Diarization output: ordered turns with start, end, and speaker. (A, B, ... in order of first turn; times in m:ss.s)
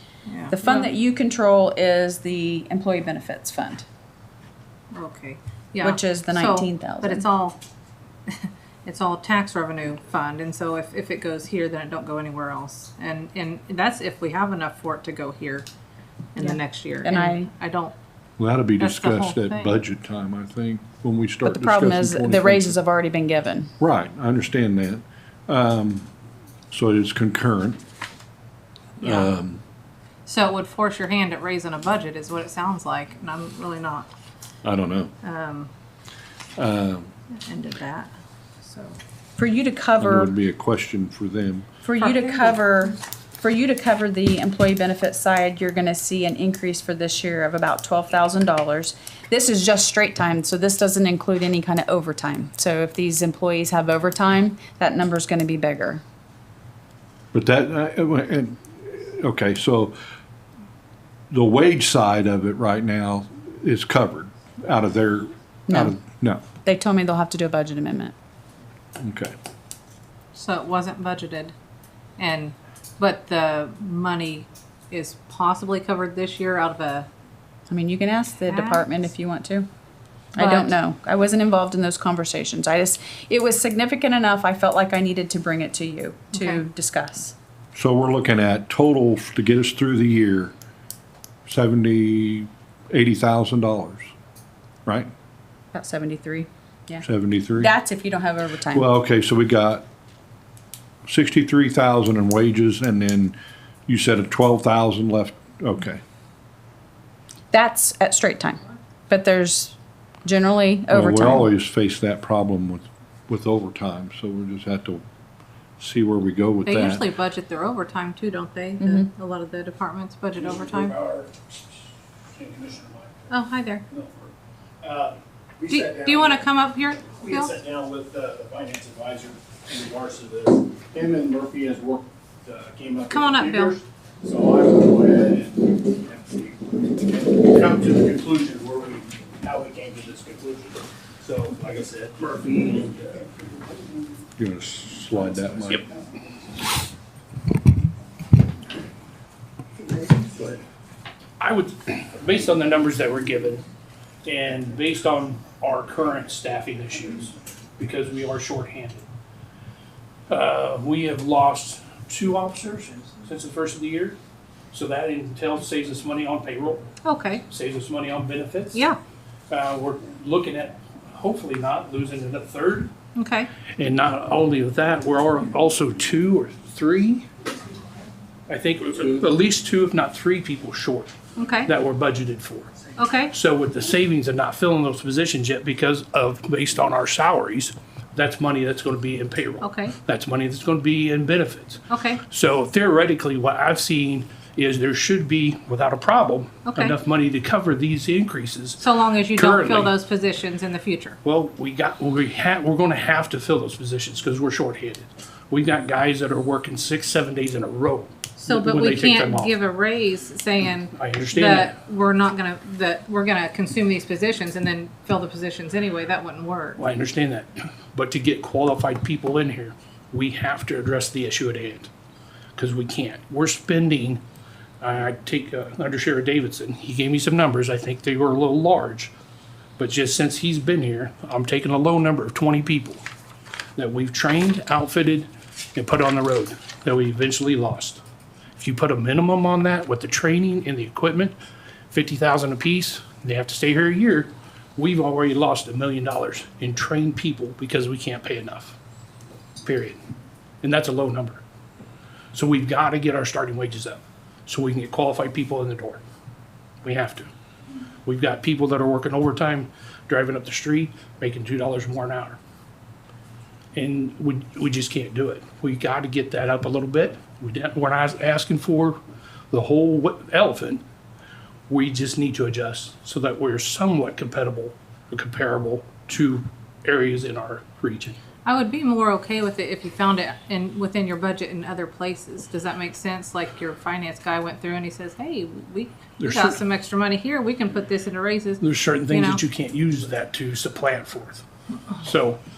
0:00.3-0:00.9 A
0:00.5-0:03.8 B
0:04.9-0:07.6 A
0:05.8-0:07.3 B
0:08.3-0:15.7 A
0:16.4-0:17.9 A
0:16.4-0:17.5 B
0:18.4-0:22.8 C
0:18.8-0:19.8 A
0:21.4-0:23.7 B
0:23.8-0:26.1 C
0:26.7-0:27.8 C
0:29.0-0:29.6 C
0:29.0-0:29.3 A
0:30.3-0:34.1 A
0:34.6-0:35.1 C
0:35.2-0:35.7 A
0:36.6-0:37.1 C
0:37.4-0:39.0 A
0:39.4-0:40.3 B
0:40.0-0:41.7 C
0:41.8-0:56.0 B
0:42.0-0:42.6 A
0:57.3-1:00.0 C
1:01.3-1:06.4 C
1:05.7-1:06.0 B
1:06.6-1:08.1 B
1:09.0-1:09.3 C
1:10.3-1:11.5 A
1:12.2-1:17.1 A
1:17.7-1:19.7 B
1:18.5-1:18.9 A
1:20.4-1:27.4 B
1:20.4-1:20.8 A
1:26.3-1:26.6 A
1:27.8-1:30.5 C
1:31.5-1:34.1 C
1:35.7-1:37.0 B
1:37.0-1:37.7 C
1:37.6-1:38.8 B
1:38.7-1:39.8 C
1:41.1-1:46.0 C
1:47.5-1:51.5 B
1:50.9-1:55.0 C
1:55.8-1:57.1 C
1:56.6-2:01.0 A
1:58.8-1:59.1 B
2:00.4-2:01.7 D
2:02.3-2:03.3 D
2:03.3-2:03.8 A
2:03.9-2:04.3 D
2:04.8-2:06.5 D
2:05.7-2:07.6 A
2:07.1-2:23.4 D
2:13.1-2:13.8 A
2:24.4-2:25.8 C
2:30.0-2:30.6 D
2:31.4-2:33.6 E
2:34.2-2:39.1 E
2:40.3-2:44.2 E
2:44.7-2:46.9 E
2:47.0-2:47.4 A
2:47.5-2:48.8 E
2:48.7-2:49.0 A
2:49.5-2:52.9 E
2:53.2-2:53.5 A
2:53.8-2:57.3 E
2:58.5-3:01.1 E
3:01.4-3:01.7 A
3:01.6-3:19.9 E
3:03.0-3:03.3 A
3:09.6-3:10.0 A
3:11.9-3:12.2 A
3:16.7-3:17.0 A
3:18.8-3:21.2 A
3:21.2-3:29.6 E
3:28.4-3:36.8 A
3:31.0-3:31.8 E
3:36.8-3:41.9 E
3:42.6-3:44.2 E
3:44.8-3:49.1 E
3:49.8-3:53.0 E
3:53.8-3:58.0 E
3:58.6-4:01.4 E
4:01.9-4:08.8 E
4:09.6-4:10.0 E
4:10.6-4:11.4 E
4:12.3-4:16.0 E
4:16.8-4:17.3 E
4:18.0-4:22.4 E
4:23.7-4:29.0 E
4:29.5-4:30.8 E
4:31.7-4:38.2 E
4:38.4-4:49.4 A
4:46.2-4:46.6 E
4:48.6-4:51.4 E
4:52.0-4:52.4 E